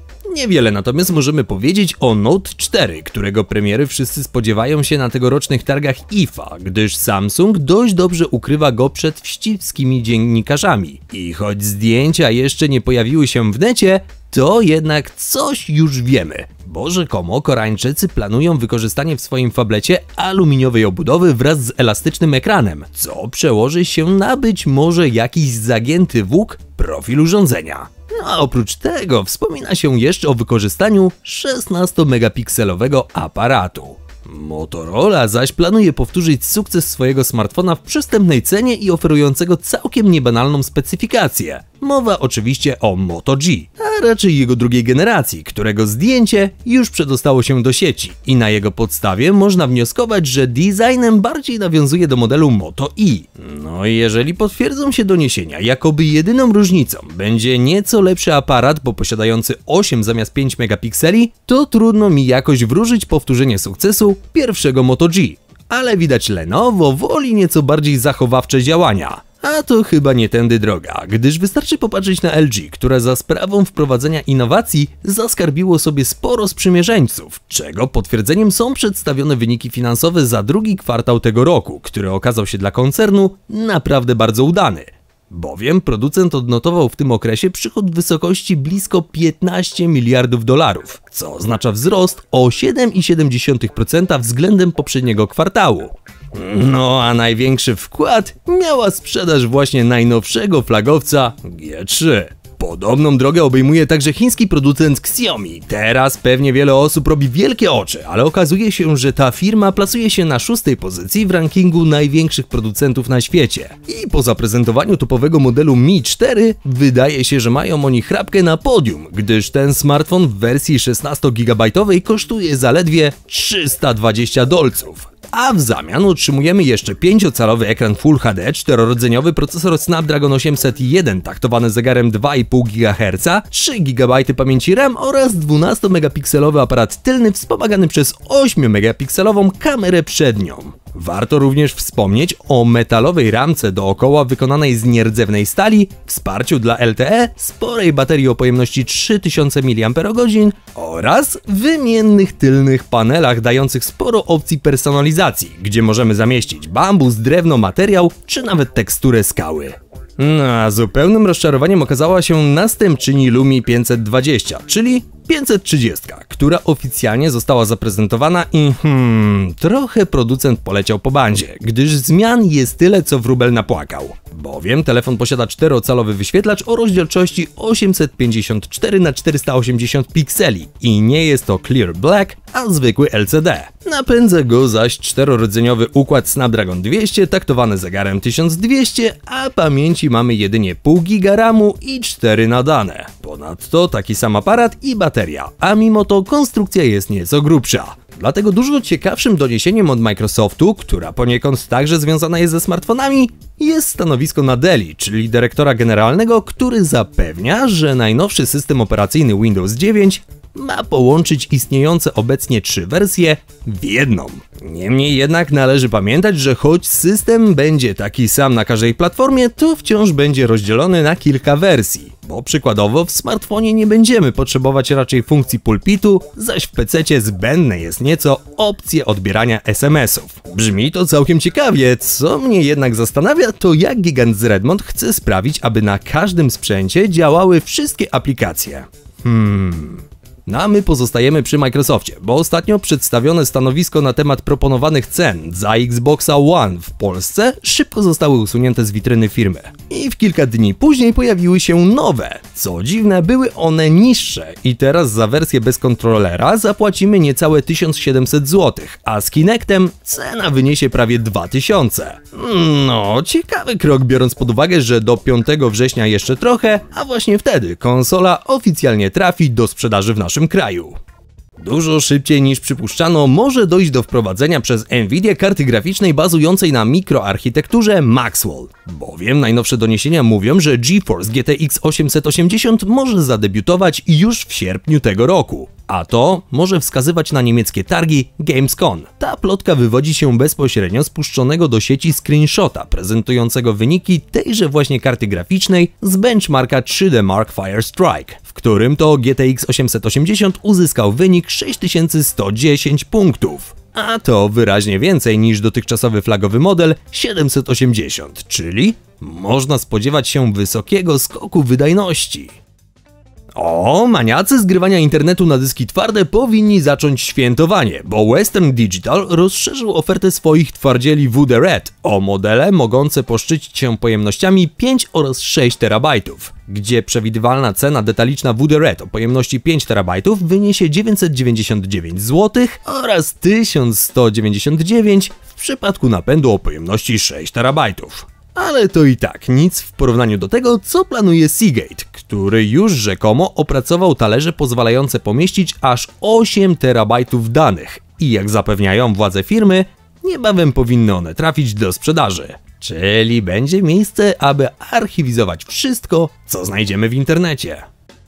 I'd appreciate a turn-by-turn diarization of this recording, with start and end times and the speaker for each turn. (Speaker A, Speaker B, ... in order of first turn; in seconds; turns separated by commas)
Speaker A: 0.3-271.0, Speaker A: 271.6-312.5, Speaker A: 313.5-357.9